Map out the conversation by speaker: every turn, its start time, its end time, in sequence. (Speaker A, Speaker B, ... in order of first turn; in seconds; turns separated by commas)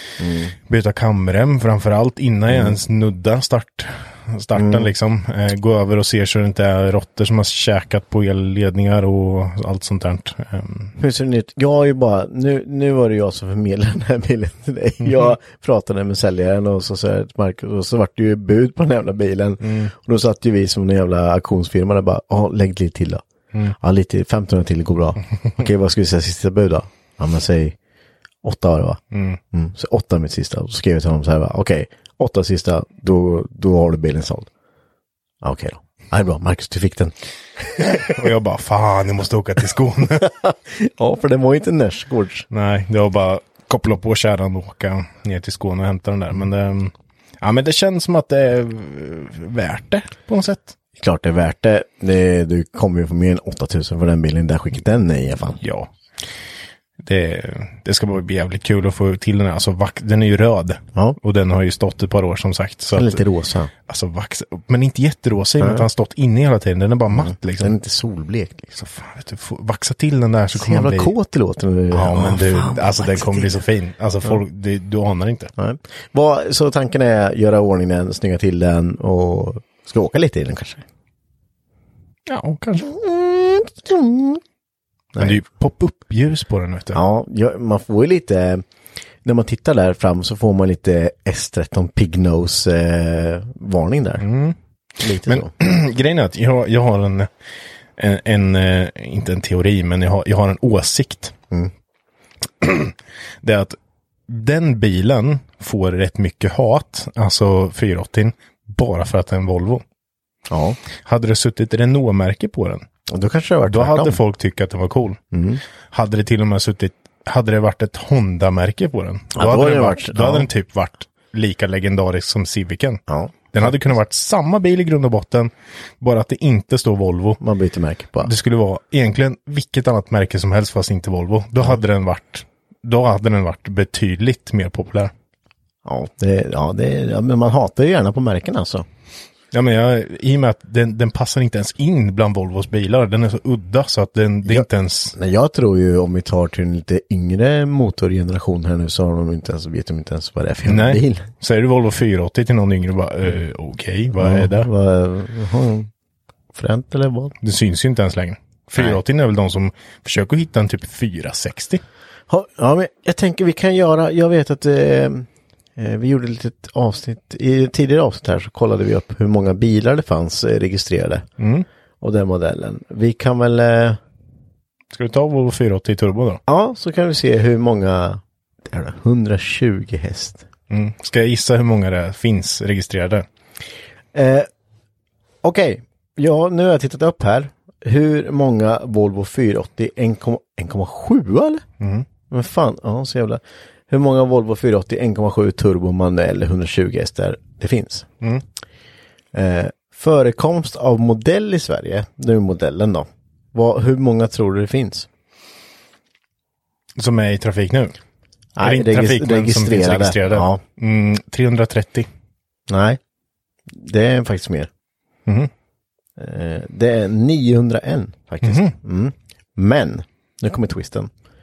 Speaker A: 0.2-0.5, Speaker B: 0.7-10.9, Speaker A: 2.5-2.8, Speaker A: 4.5-4.9, Speaker A: 11.0-23.2, Speaker B: 19.6-19.9, Speaker A: 23.8-27.8, Speaker A: 28.4-29.0, Speaker B: 29.1-29.4, Speaker A: 29.5-34.5, Speaker A: 35.4-38.2, Speaker B: 38.0-40.3, Speaker A: 40.2-42.5, Speaker B: 42.5-50.8, Speaker A: 51.0-55.6, Speaker B: 55.6-55.9, Speaker B: 57.0-63.2, Speaker A: 62.9-63.7, Speaker B: 63.9-67.7, Speaker A: 65.6-65.8, Speaker A: 67.1-68.8, Speaker B: 68.8-71.1, Speaker A: 70.5-73.6, Speaker B: 71.9-75.5, Speaker A: 75.6-80.8, Speaker B: 82.3-82.9, Speaker A: 82.8-84.4, Speaker A: 85.1-85.4, Speaker B: 85.2-87.0, Speaker A: 86.9-88.6, Speaker A: 89.2-94.3, Speaker B: 94.2-97.3, Speaker A: 95.0-95.5, Speaker B: 98.0-101.3, Speaker B: 102.6-103.8, Speaker B: 104.3-109.8, Speaker A: 110.5-110.8, Speaker B: 111.0-112.8, Speaker A: 113.1-114.2, Speaker B: 113.7-115.2, Speaker A: 115.3-115.6, Speaker B: 115.9-123.0, Speaker A: 119.3-120.5, Speaker A: 123.1-123.8, Speaker B: 123.5-127.4, Speaker A: 127.4-128.3, Speaker B: 128.2-135.1, Speaker A: 135.8-138.8, Speaker B: 139.5-145.2, Speaker A: 144.4-151.3, Speaker B: 150.7-154.7, Speaker A: 154.2-155.9, Speaker A: 156.5-157.3, Speaker B: 157.4-161.8, Speaker A: 162.3-171.3, Speaker B: 171.4-171.7, Speaker A: 172.0-174.0, Speaker B: 174.9-176.4, Speaker A: 176.5-180.4, Speaker B: 180.7-183.2, Speaker A: 184.1-184.5, Speaker A: 185.4-191.6, Speaker B: 191.8-192.1, Speaker A: 192.3-198.1, Speaker A: 199.3-205.1, Speaker B: 207.0-207.9, Speaker A: 208.6-210.6, Speaker B: 208.6-212.1, Speaker A: 212.7-213.0, Speaker A: 213.7-214.7, Speaker A: 216.2-221.1, Speaker B: 218.4-218.7